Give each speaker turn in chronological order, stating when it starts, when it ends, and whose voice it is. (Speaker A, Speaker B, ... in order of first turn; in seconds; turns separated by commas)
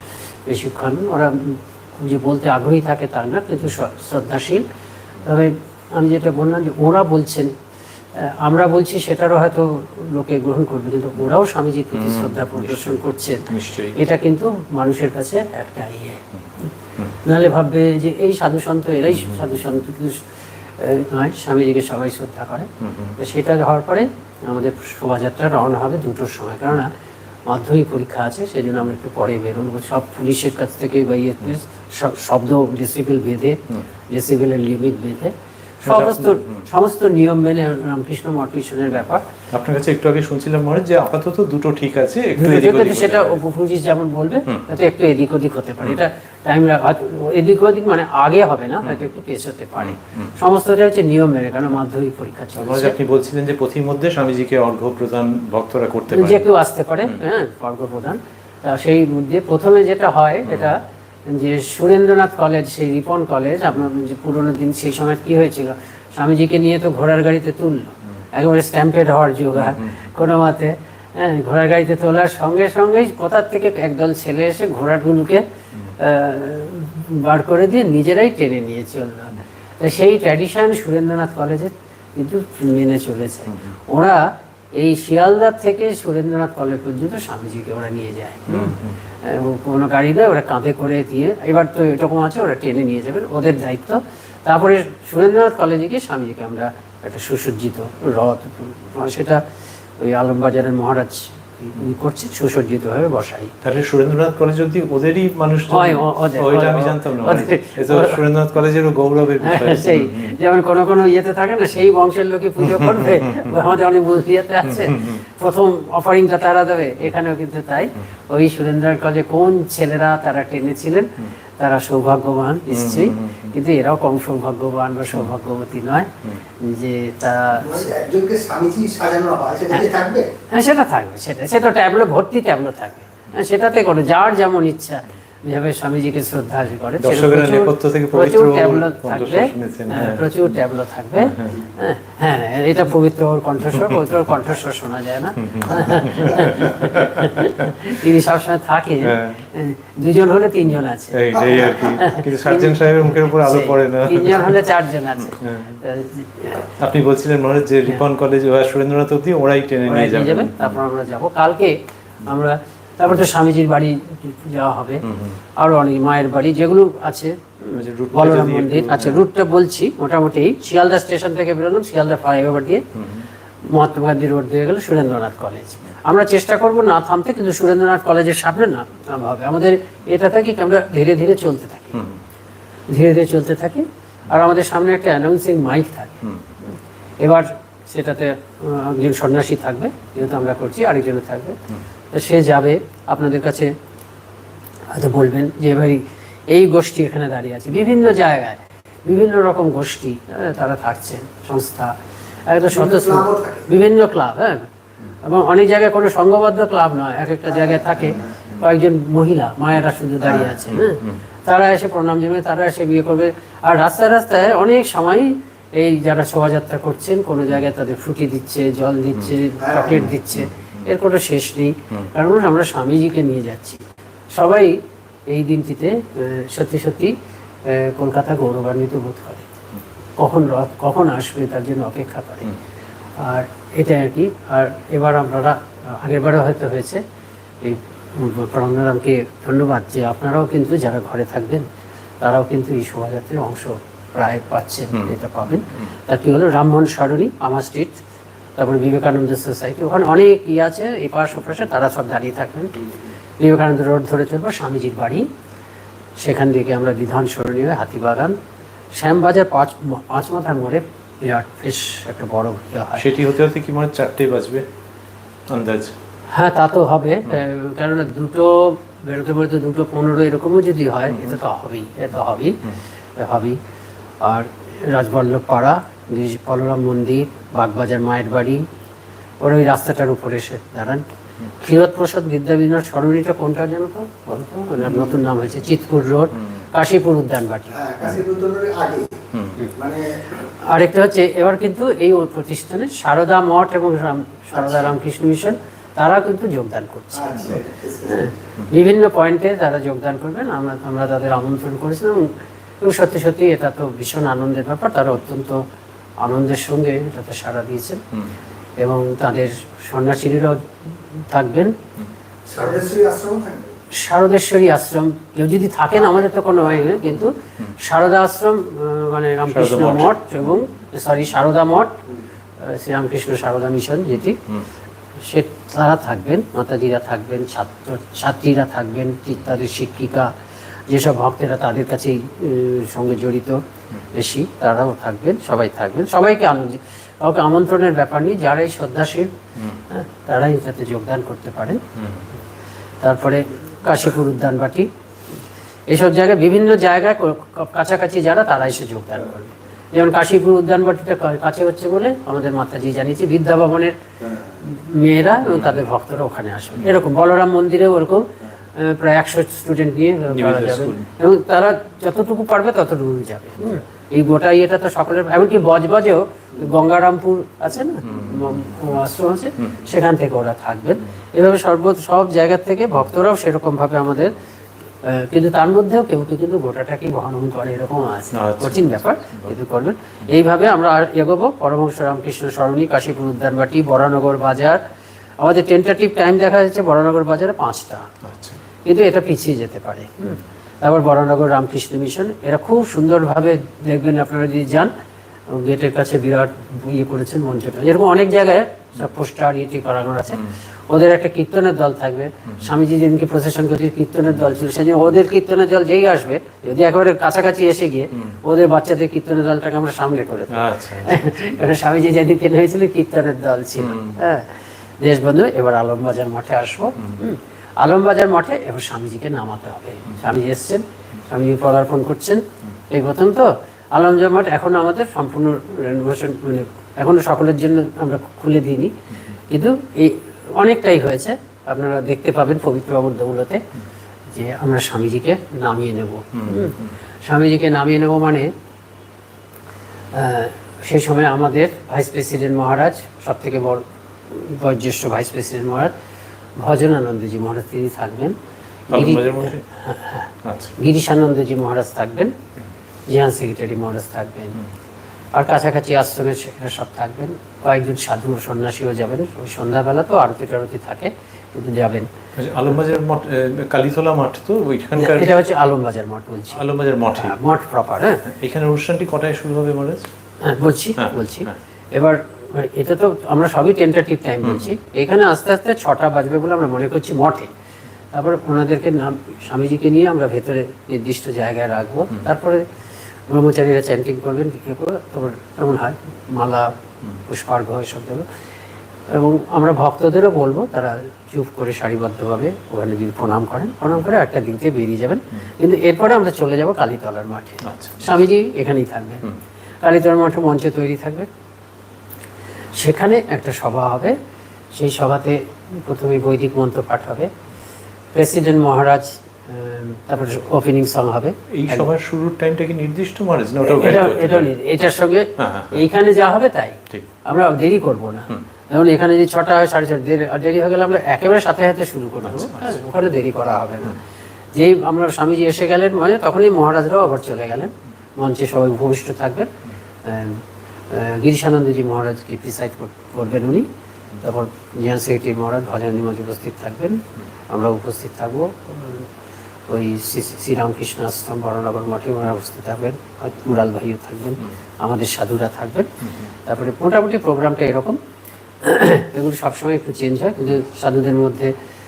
Speaker A: 0.5-4.7, Speaker A: 5.2-7.5, Speaker A: 8.1-16.2, Speaker B: 12.0-13.0, Speaker B: 13.5-14.0, Speaker A: 17.2-20.2, Speaker A: 20.8-26.9, Speaker B: 22.8-23.2, Speaker A: 27.4-39.2, Speaker B: 35.8-36.6, Speaker B: 39.5-43.4, Speaker A: 42.4-53.0, Speaker B: 49.8-50.3, Speaker B: 52.5-56.5, Speaker A: 56.1-75.4, Speaker B: 69.7-70.0, Speaker A: 76.0-99.4, Speaker B: 88.5-88.9, Speaker A: 100.0-103.5, Speaker B: 103.6-110.3, Speaker A: 105.7-108.2, Speaker A: 109.4-127.9, Speaker B: 114.8-115.2, Speaker B: 122.7-123.5, Speaker C: 127.5-130.3, Speaker A: 130.5-156.7, Speaker B: 137.0-140.3, Speaker B: 145.4-147.8, Speaker B: 149.0-149.4, Speaker B: 151.1-154.6, Speaker B: 155.3-155.8, Speaker B: 156.8-160.7, Speaker A: 159.8-165.0, Speaker B: 165.0-165.4, Speaker A: 165.6-172.8, Speaker B: 167.7-169.2, Speaker B: 172.9-173.2, Speaker A: 173.7-182.0, Speaker A: 182.9-186.2, Speaker A: 187.2-191.6, Speaker A: 192.1-193.7, Speaker A: 194.9-204.7, Speaker C: 202.7-203.7, Speaker A: 205.2-223.8, Speaker C: 219.6-220.0, Speaker B: 220.3-220.8, Speaker A: 224.3-229.5, Speaker A: 230.2-232.5, Speaker A: 233.2-237.0, Speaker A: 237.6-241.7, Speaker A: 242.2-248.0, Speaker A: 248.6-252.7, Speaker A: 253.4-255.3, Speaker A: 256.2-258.4, Speaker A: 258.9-263.1, Speaker B: 262.9-264.7, Speaker B: 265.5-265.9, Speaker A: 266.3-272.6, Speaker A: 273.1-273.6, Speaker A: 274.2-278.6, Speaker A: 279.4-281.0, Speaker A: 281.6-287.8, Speaker C: 287.7-289.1, Speaker B: 289.3-289.6, Speaker C: 289.8-290.1, Speaker A: 290.6-305.6, Speaker C: 294.6-294.8, Speaker C: 297.1-298.3, Speaker A: 306.2-308.0, Speaker A: 308.8-311.8, Speaker C: 312.5-313.7, Speaker A: 313.9-321.9, Speaker B: 319.5-320.2, Speaker A: 322.6-324.4, Speaker A: 325.2-330.3, Speaker A: 330.9-339.3, Speaker A: 339.9-341.8, Speaker B: 342.0-342.2, Speaker A: 343.0-344.9, Speaker A: 345.9-354.0, Speaker A: 354.6-374.3, Speaker B: 355.5-355.8, Speaker B: 360.3-361.1, Speaker B: 368.0-368.6, Speaker A: 375.0-384.8, Speaker B: 378.3-379.5, Speaker A: 385.4-388.1, Speaker B: 388.2-388.6, Speaker A: 388.8-394.9, Speaker A: 395.5-428.9, Speaker B: 410.5-411.5, Speaker B: 413.8-414.2, Speaker A: 429.5-433.6, Speaker A: 434.3-438.5, Speaker B: 436.3-436.9, Speaker A: 440.1-445.9, Speaker A: 446.6-448.4, Speaker A: 448.9-450.3, Speaker B: 448.9-449.6, Speaker B: 450.4-450.7, Speaker A: 450.8-452.4, Speaker A: 453.1-454.6, Speaker A: 455.3-462.1, Speaker B: 462.4-465.4, Speaker A: 464.9-466.6, Speaker B: 466.5-467.4, Speaker A: 467.1-468.2, Speaker B: 468.2-470.1, Speaker A: 470.4-477.5, Speaker B: 471.0-471.5, Speaker B: 474.4-474.7, Speaker A: 478.1-482.7, Speaker A: 483.3-488.3, Speaker A: 489.1-499.2, Speaker B: 497.6-498.1, Speaker A: 499.8-501.3, Speaker A: 502.8-504.2, Speaker A: 504.7-507.3, Speaker A: 508.1-511.9, Speaker B: 511.5-514.5, Speaker A: 513.6-524.0, Speaker B: 515.4-515.8, Speaker A: 524.5-529.5, Speaker A: 530.0-533.7, Speaker A: 534.2-539.1, Speaker A: 539.7-545.9, Speaker A: 546.4-548.0, Speaker A: 548.6-551.5